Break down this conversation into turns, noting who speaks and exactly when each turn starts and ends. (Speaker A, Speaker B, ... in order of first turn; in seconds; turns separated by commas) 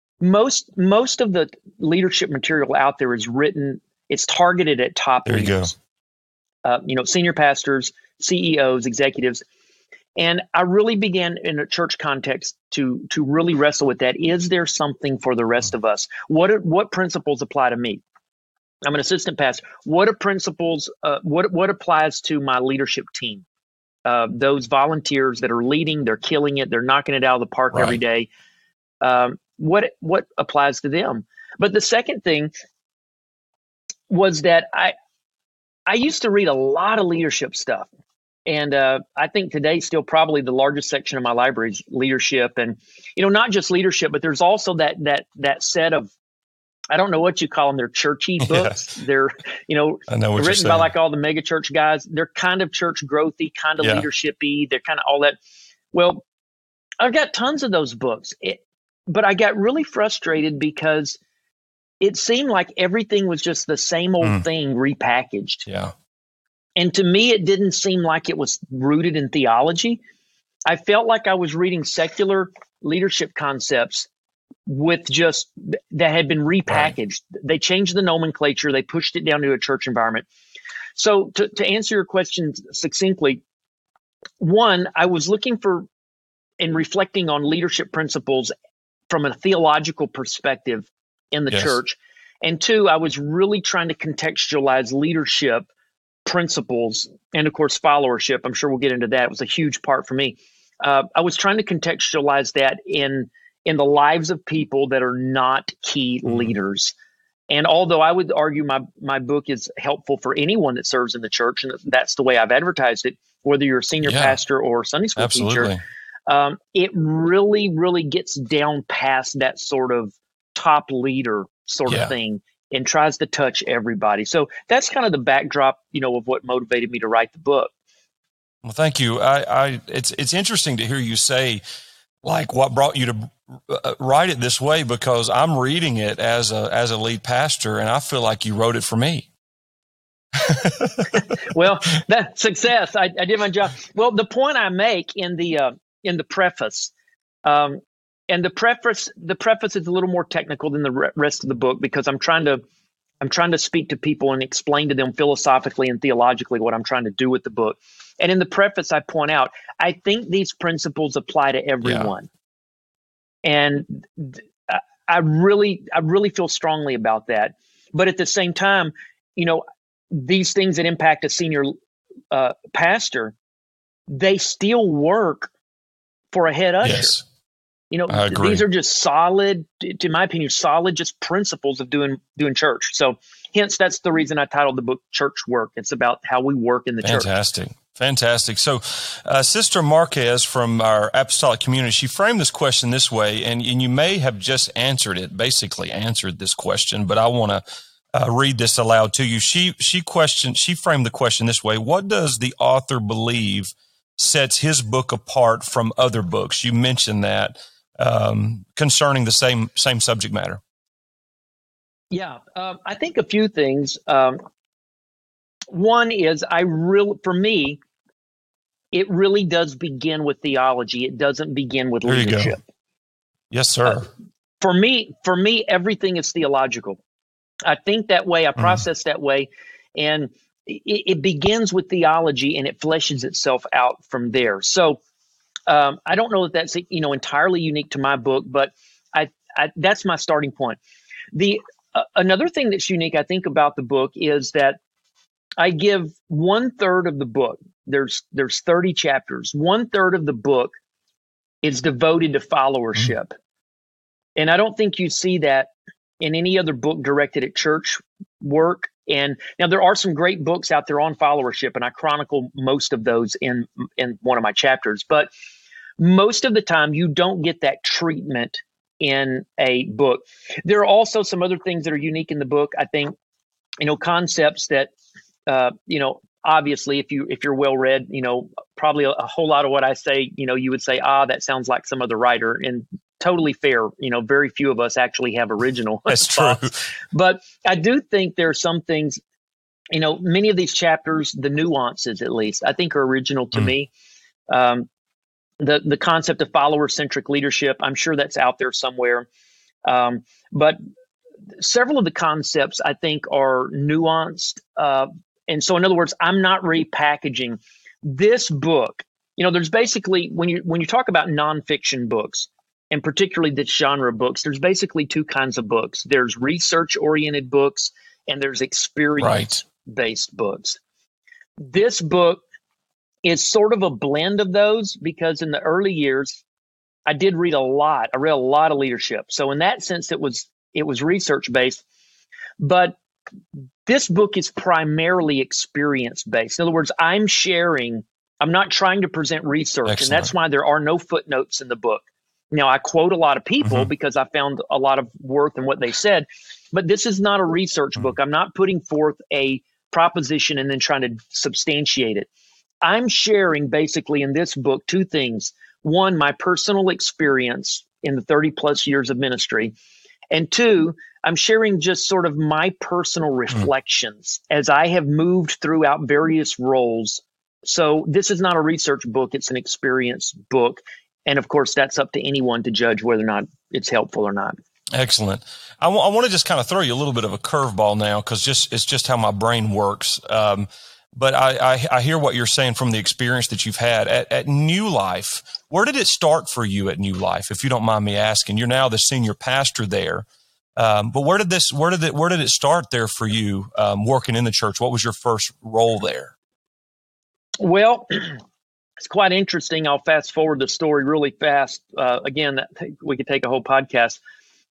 Speaker A: 0.2-5.7, Speaker B: 5.2-5.7, Speaker A: 6.6-9.4, Speaker A: 10.2-18.0, Speaker A: 18.8-23.4, Speaker A: 24.0-28.3, Speaker A: 29.0-32.5, Speaker A: 34.1-34.9, Speaker A: 35.9-37.9, Speaker A: 38.5-46.1, Speaker A: 46.9-55.4, Speaker B: 48.4-48.9, Speaker B: 50.1-50.9, Speaker B: 53.8-54.0, Speaker A: 55.9-56.2, Speaker A: 57.0-61.2, Speaker A: 62.0-65.7, Speaker B: 65.7-65.9, Speaker A: 66.8-70.0, Speaker A: 70.7-74.1, Speaker A: 74.7-80.2, Speaker B: 76.7-76.9, Speaker A: 81.0-83.4, Speaker A: 84.4-85.8, Speaker A: 86.6-88.5, Speaker A: 89.1-95.7, Speaker B: 91.5-91.8, Speaker A: 96.2-106.9, Speaker A: 107.5-115.7, Speaker B: 114.0-114.4, Speaker B: 115.2-115.8, Speaker A: 116.3-127.7, Speaker B: 121.9-122.1, Speaker B: 128.6-131.6, Speaker B: 132.2-139.3, Speaker B: 140.3-141.2, Speaker A: 141.4-146.9, Speaker A: 147.4-152.6, Speaker A: 153.2-162.3, Speaker B: 161.8-162.1, Speaker A: 163.4-171.7, Speaker A: 172.3-173.3, Speaker A: 174.1-175.5, Speaker A: 176.3-177.2, Speaker B: 176.8-177.2, Speaker A: 177.9-187.3, Speaker B: 178.1-178.6, Speaker B: 187.0-210.6, Speaker A: 212.1-214.4, Speaker A: 215.7-217.8, Speaker A: 218.9-222.6, Speaker B: 222.1-222.5, Speaker B: 223.5-224.1, Speaker A: 224.6-227.0, Speaker A: 227.6-235.0, Speaker B: 228.6-228.8, Speaker A: 235.7-240.8, Speaker A: 241.3-244.8, Speaker A: 245.6-250.7, Speaker A: 251.6-253.3, Speaker A: 254.3-265.3, Speaker A: 266.0-273.1, Speaker A: 273.8-274.9, Speaker A: 275.5-289.2, Speaker B: 286.1-286.8, Speaker A: 289.9-293.9, Speaker A: 294.5-294.9, Speaker A: 295.6-299.3, Speaker A: 299.8-300.8, Speaker A: 301.6-320.8, Speaker B: 319.2-319.6, Speaker A: 321.6-322.4, Speaker A: 323.2-326.4, Speaker A: 327.1-331.8, Speaker A: 332.6-333.0, Speaker A: 333.9-352.3, Speaker B: 339.9-340.3, Speaker B: 343.6-343.9, Speaker A: 352.8-359.7, Speaker A: 360.3-374.6, Speaker B: 374.9-390.2, Speaker B: 390.8-396.3, Speaker A: 397.6-398.4, Speaker A: 399.0-404.2